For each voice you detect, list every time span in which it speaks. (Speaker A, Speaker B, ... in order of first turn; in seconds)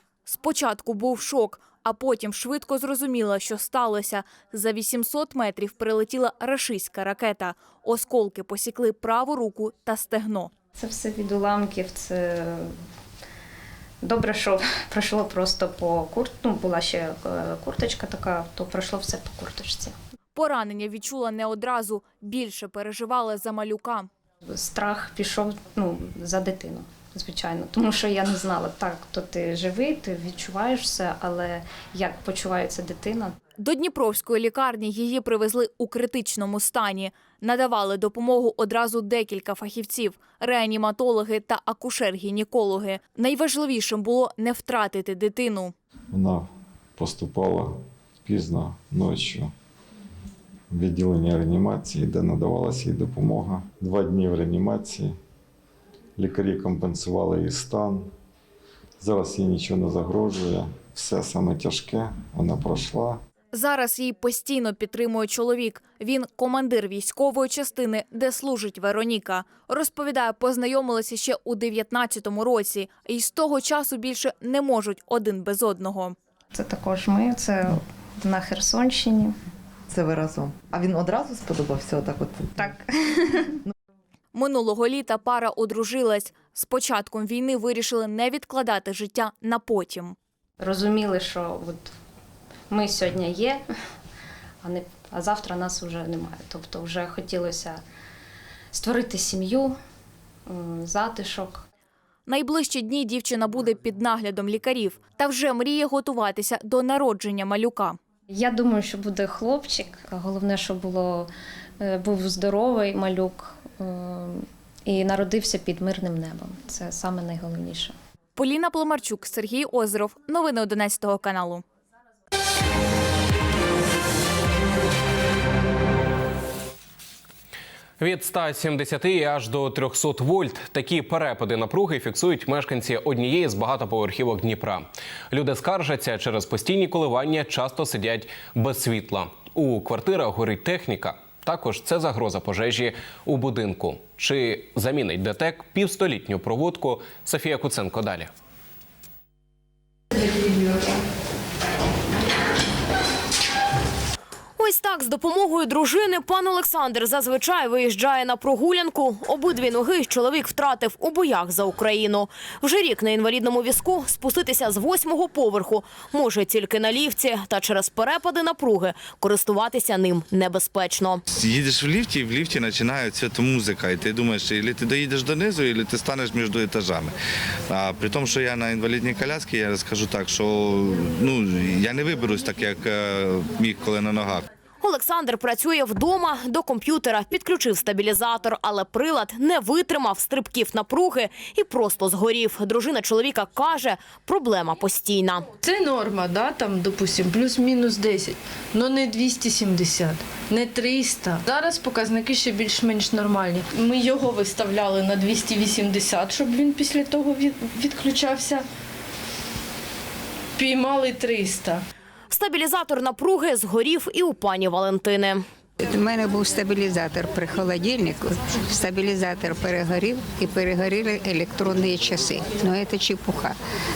Speaker A: 0.3-10.5, 20.4-24.1, 33.6-45.7, 63.5-76.2, 84.3-90.2, 102.3-108.0, 118.4-121.6
Speaker B: 10.8-12.7, 14.0-19.9, 24.5-33.4, 76.5-79.3, 82.6-83.4, 90.6-91.9, 92.7-93.6, 94.6-97.8, 98.7-99.8, 100.5-101.7, 108.3-111.3, 111.8-117.9
Speaker C: 46.1-46.5, 47.0-49.5, 50.7-55.1, 56.2-58.1, 59.0-63.2
Speaker D: 79.9-82.6
Speaker E: 128.0-148.3
Speaker F: 154.6-171.2, 184.8-195.5, 212.3-215.4
Speaker G: 171.4-177.1, 177.7-184.5
Speaker H: 195.6-208.7, 210.6-211.8
Speaker I: 215.8-223.6